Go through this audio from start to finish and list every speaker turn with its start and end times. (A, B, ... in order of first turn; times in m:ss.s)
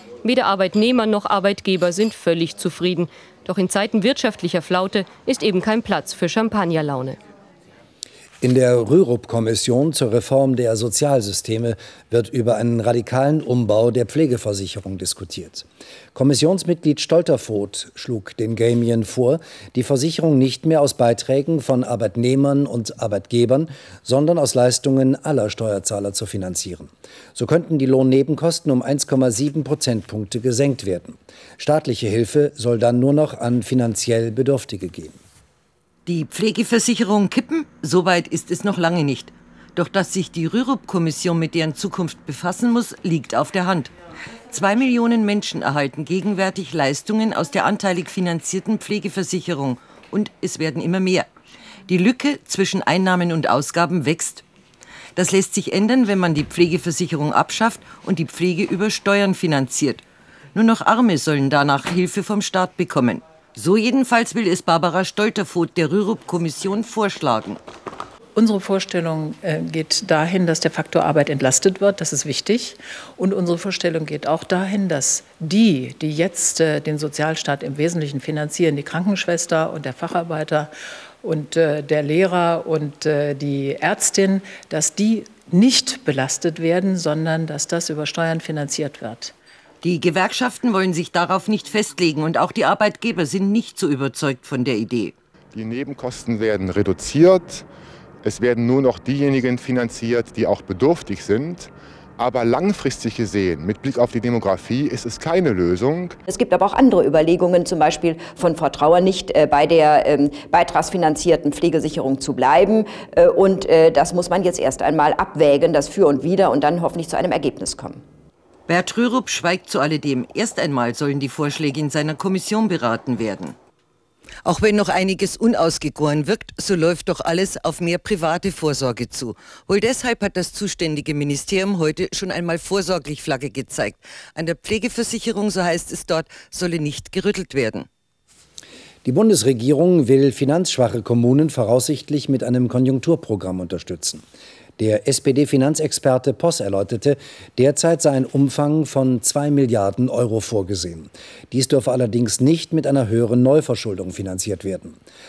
0:00.2-0:07.2 A
0:08.4-0:35.2 B
0:36.1-0:43.9 C
0:44.5-0:51.3 C
0:51.9-0:54.5 C
0:55.2-1:00.0 C
1:00.6-1:07.6 C
1:08.4-1:20.7 D
1:21.2-1:29.3 D
1:29.8-1:35.2 C
1:35.6-1:37.7 E
1:38.2-1:46.2 E
1:46.3-1:58.0 F
1:58.7-2:03.6 C
2:04.4-2:17.9 C
2:19.0-2:24.2 B
2:24.8-2:35.0 B